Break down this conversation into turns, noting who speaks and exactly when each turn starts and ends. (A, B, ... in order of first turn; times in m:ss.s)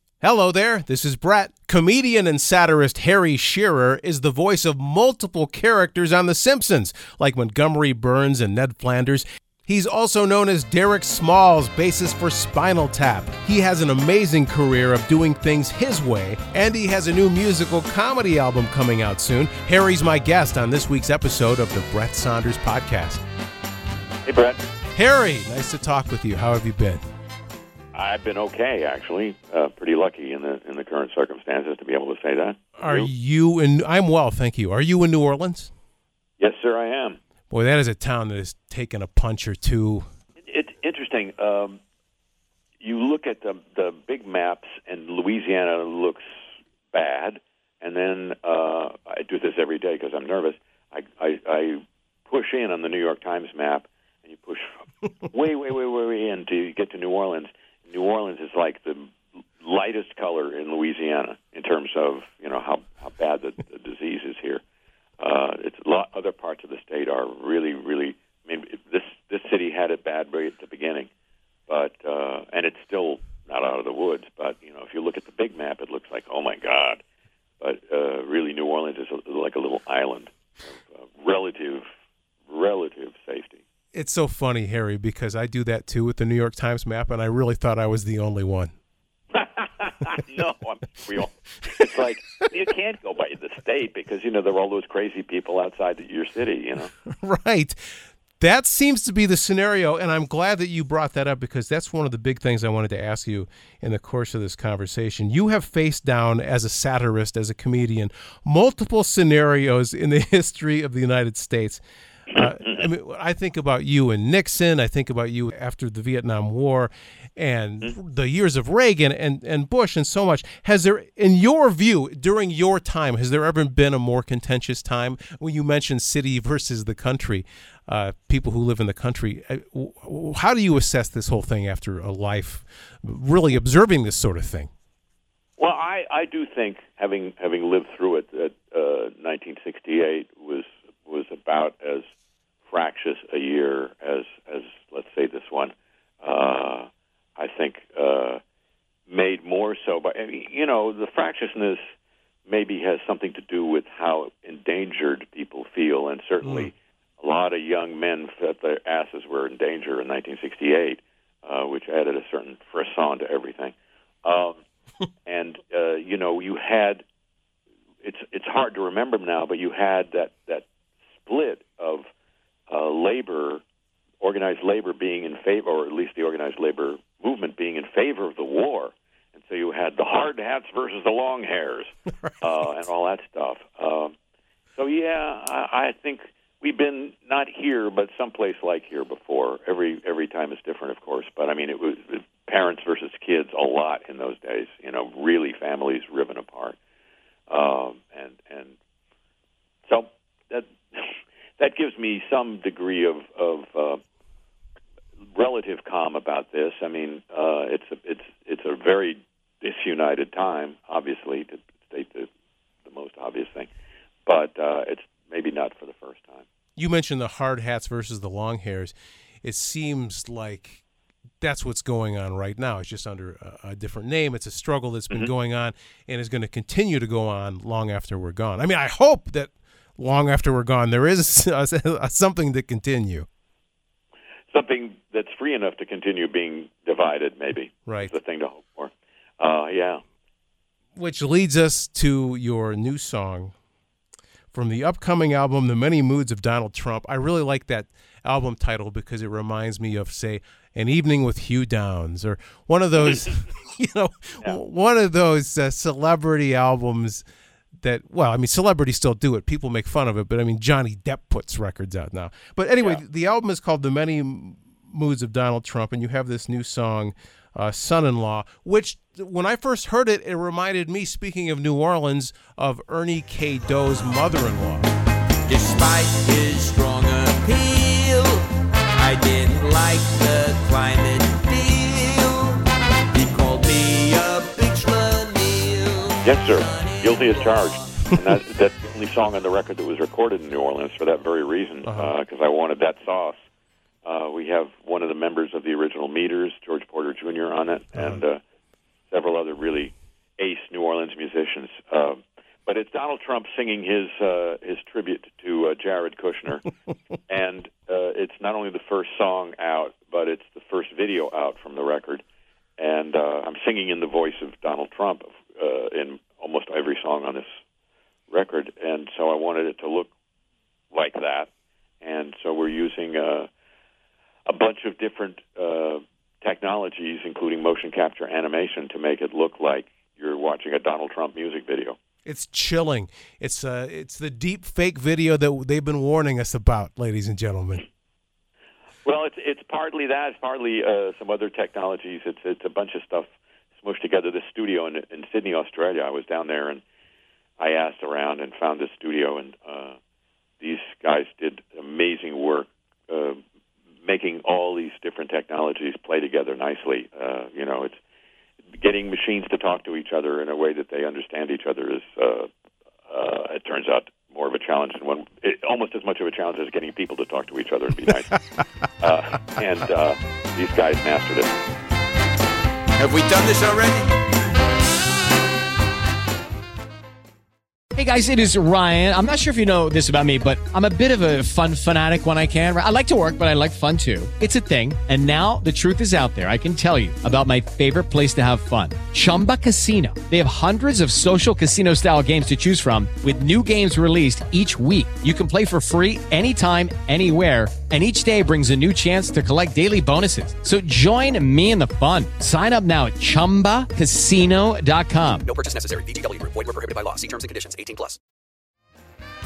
0:00.2-0:23.2 A
0:24.2-0:24.6 B
0:24.9-0:27.0 A
0:27.9-0:33.1 B
0:32.8-0:35.7 A
0:36.4-0:37.2 B
0:37.5-0:40.0 A
0:40.4-0:41.8 B
0:42.8-0:46.2 B
0:46.9-0:54.7 B
0:55.2-1:04.6 B
1:05.2-1:11.1 B
1:11.7-1:17.0 B
1:17.6-1:21.8 B
1:22.5-1:23.6 B
1:23.9-1:28.7 A
1:29.3-1:36.9 B
1:37.1-1:37.8 A
1:38.4-2:14.7 A
1:52.4-1:52.8 B
2:15.6-2:22.0 B
2:22.7-2:28.4 B
2:29.1-2:31.8 B
2:32.5-2:44.6 B
2:36.4-2:36.7 A
2:45.2-2:47.0 B
2:48.0-2:50.6 B
2:51.2-2:52.0 B
2:52.7-2:53.6 B
2:54.2-3:04.1 B
3:04.8-3:16.8 B
3:17.5-3:18.7 B
3:19.8-3:24.0 B
3:25.3-3:32.3 B
3:32.8-3:33.7 B
3:34.2-3:36.4 B
3:36.8-3:40.8 A
3:41.4-3:53.3 A
3:54.5-4:00.0 B
3:57.8-3:58.1 A
4:01.0-4:03.5 A
4:04.5-4:17.2 A
4:17.8-4:34.9 A
4:35.4-4:47.7 C
4:46.2-4:53.3 B
4:51.8-4:52.1 A
4:54.0-4:58.4 B
4:57.9-4:58.2 A
4:59.1-5:06.7 B
5:07.3-5:12.2 B
5:12.8-5:17.4 B
5:18.3-5:20.1 B
5:20.9-5:21.5 B
5:22.0-5:23.5 B
5:24.5-5:32.0 B
5:32.2-5:37.8 A
5:39.0-5:46.8 B
5:47.6-5:50.0 B
5:50.6-5:53.4 B
5:54.0-5:58.0 B
5:58.8-6:02.5 B
6:03.1-6:08.4 B
6:09.0-6:11.5 B
6:13.0-6:14.2 C
6:17.9-6:45.5 D
6:45.4-6:48.2 E